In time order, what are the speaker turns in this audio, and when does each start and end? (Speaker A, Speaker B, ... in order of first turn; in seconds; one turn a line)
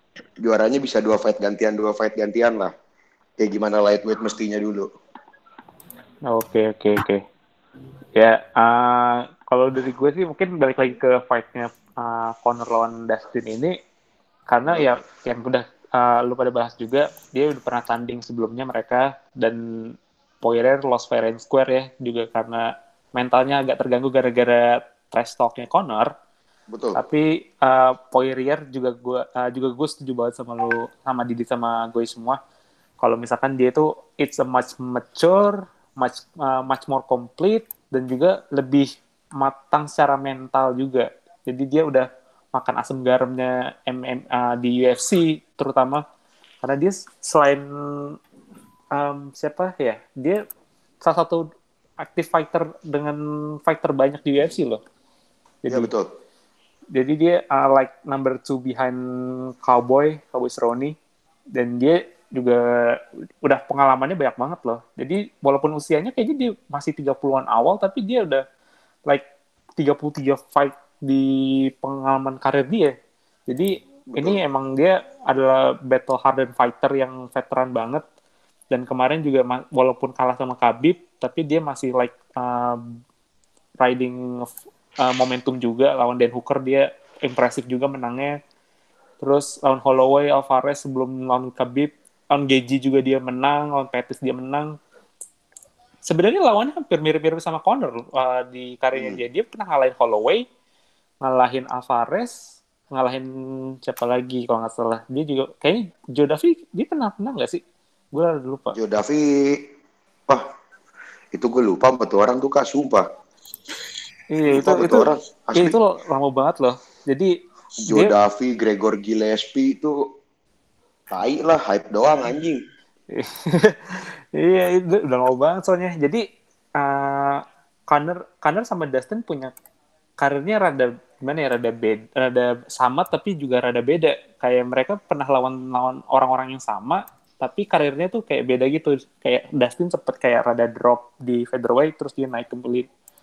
Speaker A: 0.4-2.7
Speaker A: 3.4-4.9
Speaker B: 6.3-7.2
Speaker B: 8.2-13.8
Speaker B: 14.5-26.1
Speaker A: 14.7-14.9
Speaker A: 26.7-27.0
Speaker B: 27.0-32.4
Speaker B: 33.0-46.0
Speaker B: 46.6-48.2
Speaker B: 48.9-50.4
Speaker B: 51.0-51.5
Speaker B: 52.0-54.8
Speaker B: 55.6-55.9
Speaker A: 55.7-56.1
Speaker B: 56.9-61.0
Speaker B: 61.5-68.5
Speaker B: 69.8-73.0
Speaker B: 73.5-78.0
Speaker A: 74.1-74.4
Speaker B: 78.7-82.8
Speaker B: 83.8-88.4
Speaker B: 89.2-94.8
Speaker B: 96.1-100.5
Speaker A: 98.9-99.2
Speaker B: 101.2-102.3
Speaker B: 102.9-107.6
Speaker B: 108.1-108.8
Speaker A: 108.8-109.6
Speaker A: 111.3-113.1
Speaker B: 114.3-117.4
Speaker A: 114.5-115.8
Speaker A: 117.8-120.0
Speaker B: 117.9-118.1
Speaker A: 121.1-122.6
Speaker B: 123.1-126.3
Speaker B: 126.8-129.5
Speaker B: 130.2-142.9